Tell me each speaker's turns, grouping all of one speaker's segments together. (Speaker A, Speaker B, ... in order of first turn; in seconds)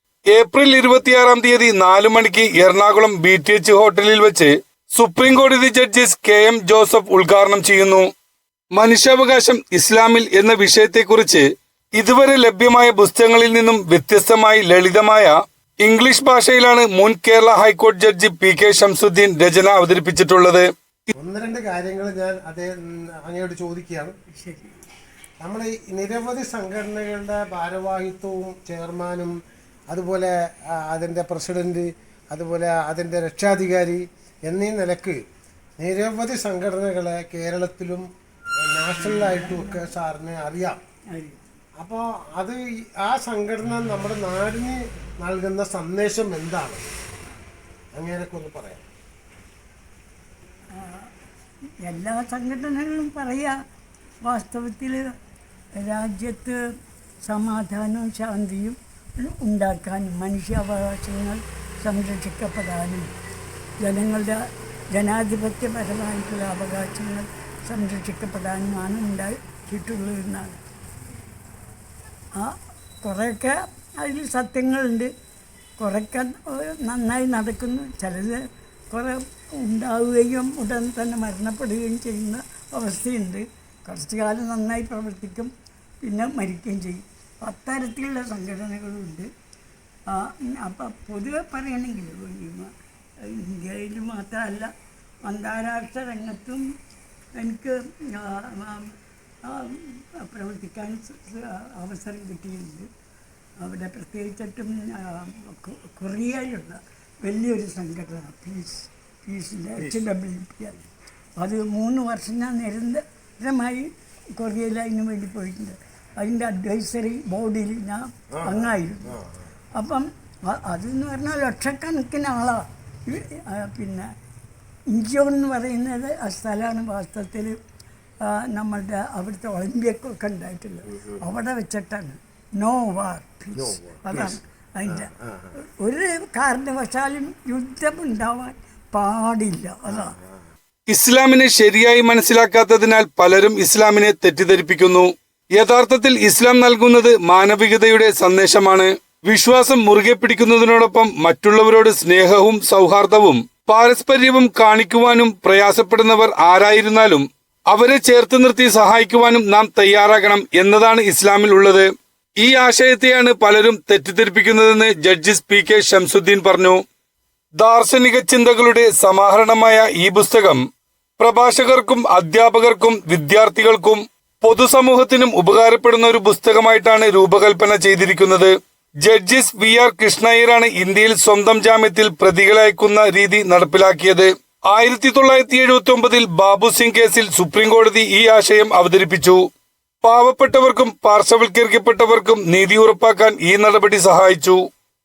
Speaker A: 0.3-8.1, 8.7-20.7, 140.9-161.9, 162.4-166.8, 167.6-170.6, 171.2-189.4, 190.0-194.6
Speaker B: 21.1-24.1, 25.4-29.3, 29.9-35.2, 35.8-38.0, 38.6-40.8, 41.8-46.9, 48.0-48.9, 118.3-119.5, 133.6-135.5, 139.9-140.2
Speaker C: 24.4-24.8, 39.0-39.9, 41.1-41.4, 50.7-51.1, 51.8-53.5, 54.2-55.0, 55.8-56.6, 57.2-63.1, 63.8-64.4, 64.9-70.6, 72.4-75.1, 75.8-89.3, 90.1-92.7, 93.2-94.7, 95.2-96.6, 97.4-98.9, 99.4-102.9, 103.6-110.8, 111.4-119.2, 119.8-124.1, 124.9-127.5, 128.2-135.1, 135.8-140.1